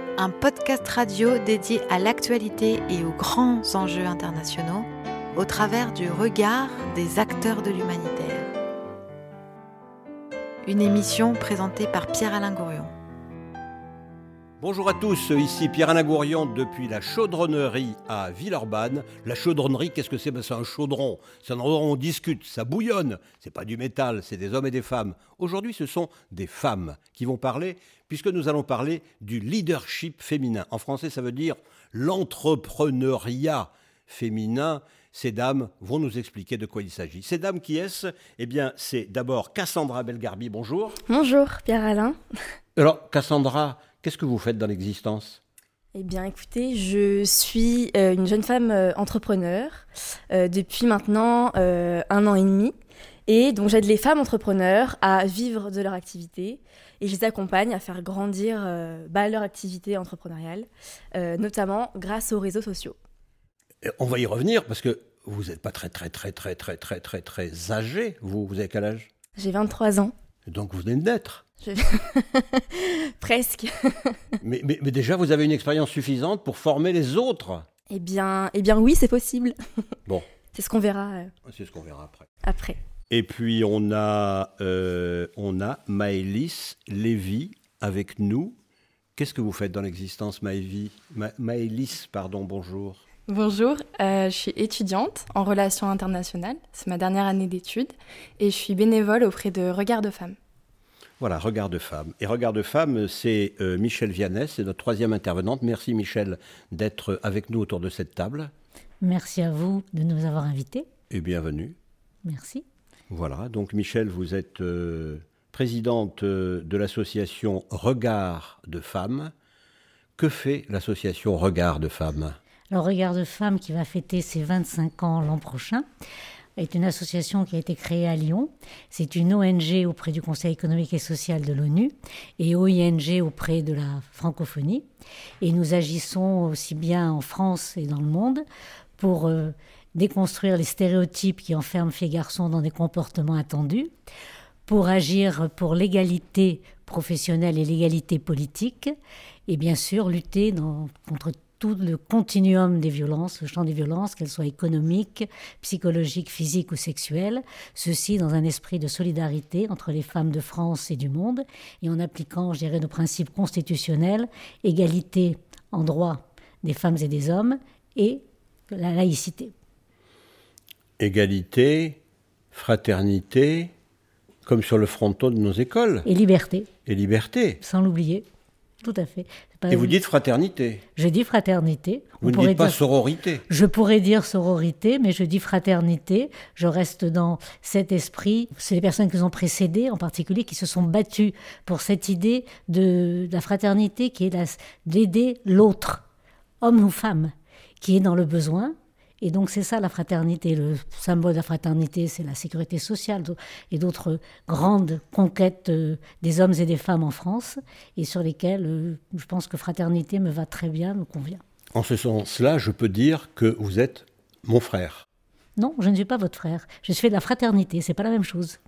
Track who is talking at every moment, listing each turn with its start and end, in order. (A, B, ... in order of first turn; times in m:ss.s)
0:00.2-0:08.5 A
0:10.6-0:12.9 A
0:14.6-0:41.0 B
0:41.1-0:42.2 C
0:42.8-0:45.4 B
0:45.9-0:52.7 C
0:53.3-1:03.0 C
1:03.8-1:09.1 B
1:09.4-1:10.1 C
1:10.4-1:11.4 B
1:11.6-1:14.4 C
1:14.4-1:17.7 B
1:17.9-1:19.6 C
1:20.5-1:21.3 C
1:21.4-1:22.3 B
1:22.4-1:22.8 C
1:23.1-1:28.6 B
1:29.2-1:33.0 B
1:33.3-1:40.4 D
1:41.2-1:48.5 B
1:49.0-1:50.9 E
1:51.1-1:51.8 B
1:52.2-1:52.6 E
1:53.1-1:59.3 B
2:00.2-2:02.4 B
2:02.7-2:05.8 E
2:06.6-2:14.8 E
2:15.4-2:18.4 E
2:19.0-2:23.9 E
2:24.6-2:28.9 E
2:29.5-2:49.5 E
2:51.0-2:52.0 B
2:52.5-2:53.7 B
2:54.4-2:56.0 B
2:56.0-2:56.7 E
2:56.8-2:57.6 B
2:57.6-2:58.2 E
2:58.8-3:00.0 E
2:59.7-3:00.8 B
3:01.0-3:02.8 E
3:02.2-3:03.4 B
3:03.5-3:16.0 E
3:16.6-3:31.4 E
3:31.7-3:35.0 B
3:35.6-3:38.6 E